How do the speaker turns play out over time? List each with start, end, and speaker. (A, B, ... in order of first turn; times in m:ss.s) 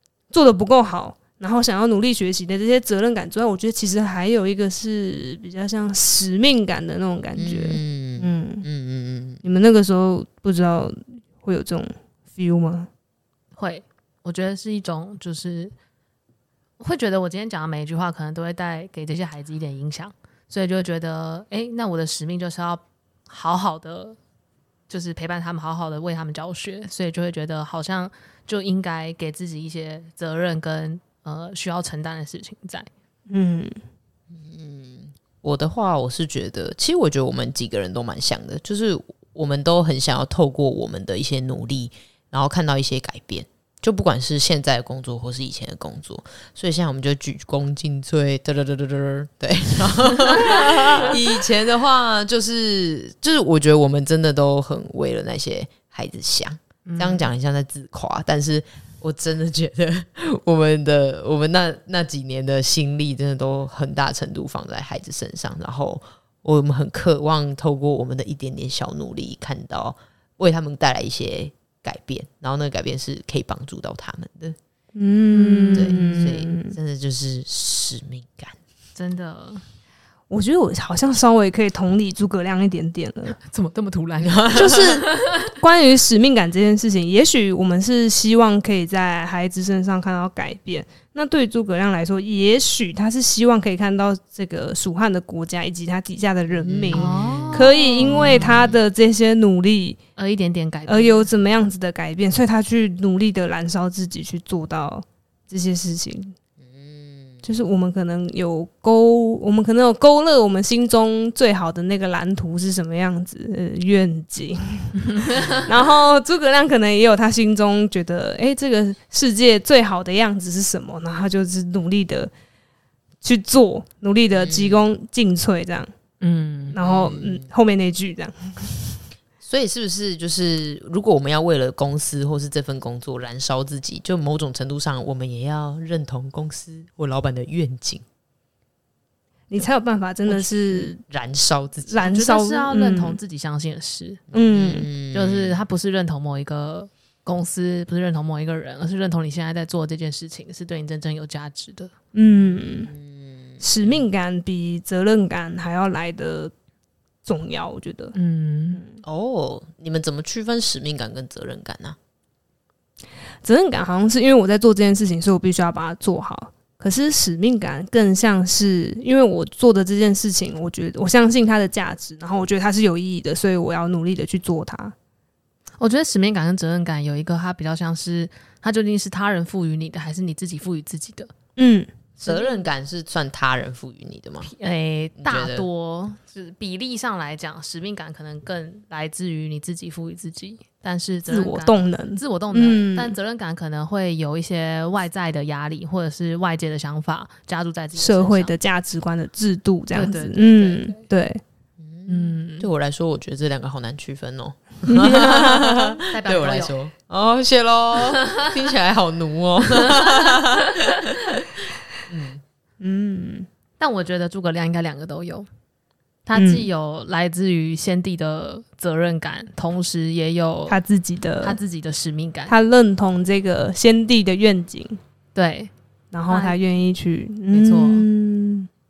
0:00.3-0:08.7 A
0:07.4-0:09.4 B
0:09.4-0:12.9 A
0:13.6-0:15.7 C
0:16.8-0:24.2 C
0:24.9-0:32.9 C
0:33.3-0:33.8 A
0:34.3-1:14.6 B
0:50.7-0:51.0 A
0:56.9-0:57.3 C
1:15.0-1:16.8 A
1:15.3-1:16.2 C
1:15.7-1:18.6 B
1:19.0-1:19.6 C
1:20.3-1:23.4 A
1:23.4-1:25.4 C
1:24.2-1:24.7 B
1:24.5-1:40.0 A
1:36.6-1:38.8 B
1:36.9-1:38.7 C
1:40.2-1:41.3 C
1:40.9-1:46.4 A
1:46.6-1:47.4 B
1:47.4-2:02.3 A
1:55.2-1:55.5 C
2:03.2-2:05.9 A
2:04.4-2:04.9 B
2:06.2-2:06.8 C
2:06.7-2:08.8 A
2:06.8-2:07.5 B
2:09.4-2:18.0 B
2:19.5-2:21.0 A
2:20.3-2:21.9 B
2:21.9-2:23.2 A
2:22.0-2:24.2 C
2:24.3-2:24.9 A
2:24.3-2:25.6 B
2:25.1-2:31.9 C
2:32.1-2:32.9 A
2:32.4-2:34.0 B
2:33.6-2:36.5 A
2:37.2-2:38.2 A
2:38.2-2:38.8 C
2:38.8-2:39.0 A
2:39.0-2:42.0 B
2:43.4-2:54.9 A
2:55.8-3:01.3 C
3:01.6-3:01.9 A
3:02.2-3:04.5 B
3:04.4-3:18.5 C
3:05.2-3:05.7 B
3:11.3-3:13.2 A
3:18.0-3:21.4 A
3:19.9-3:21.0 C
3:21.8-3:31.4 B
3:22.1-3:22.7 C
3:24.9-3:26.0 A
3:26.1-3:26.8 C
3:29.8-3:30.9 C
3:32.1-3:32.4 B
3:32.8-3:33.5 A
3:33.8-3:35.5 C
3:36.3-3:40.8 C
3:36.4-3:36.7 A
3:40.7-3:41.6 A
3:41.4-3:42.6 C
3:42.5-3:45.0 A
3:45.4-3:45.7 C
3:46.1-3:48.7 A
3:46.3-3:46.6 C
3:47.5-3:48.1 C